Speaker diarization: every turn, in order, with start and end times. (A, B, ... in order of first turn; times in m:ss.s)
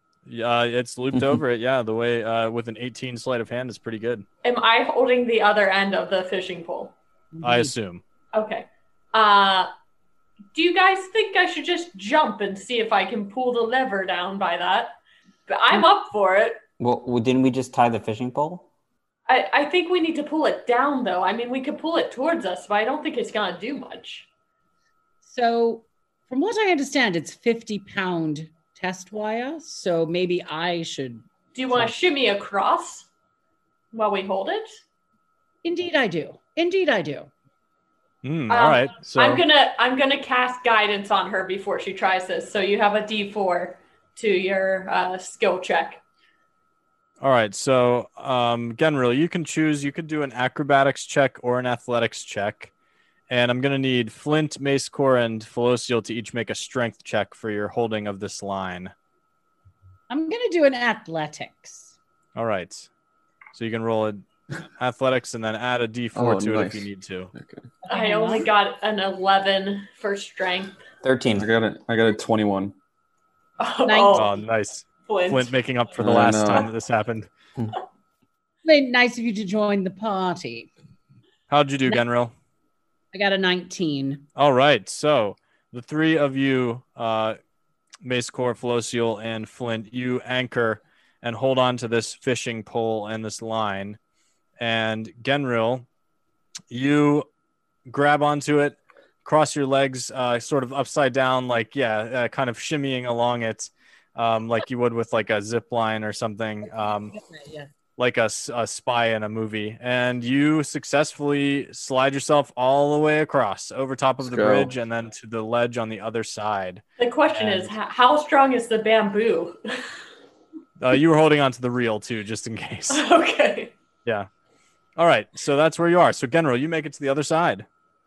0:00.2-0:04.2 A
0:04.4-0:06.9 B
0:07.3-0:07.7 C
0:07.4-0:08.0 A
0:08.3-0:09.7 B
0:10.5-0:15.0 B
0:15.5-0:16.6 B
0:16.8-0:18.6 D
0:19.3-0:24.3 B
0:25.2-0:31.9 C
0:31.5-0:33.1 B
0:33.9-0:34.7 B
0:35.6-0:37.3 C
0:38.2-0:39.4 A
0:38.5-0:46.0 B
0:47.2-0:52.7 A
0:53.3-0:58.9 A
1:00.1-1:01.9 C
1:02.3-1:02.9 A
1:03.5-1:04.2 A
1:04.8-1:07.3 A
1:06.1-1:07.6 E
1:07.9-1:08.5 C
1:07.9-1:10.8 B
1:11.0-1:11.5 D
1:11.4-1:12.7 E
1:13.6-1:14.3 B
1:13.8-1:14.3 C
1:14.1-1:17.3 A
1:15.0-1:15.5 B
1:16.0-1:16.7 E
1:18.6-1:20.7 C
1:21.5-1:22.3 A
1:23.1-1:24.2 C
1:24.4-1:27.4 A
1:28.0-1:34.0 A
1:34.6-1:35.8 A
1:36.7-1:37.3 A
1:37.8-1:47.1 A
1:46.7-1:47.7 C
1:48.0-1:57.7 A
1:54.2-1:54.7 E
1:57.0-1:59.6 B
2:00.8-2:03.0 A
2:02.9-2:03.7 B
2:05.0-2:07.6 A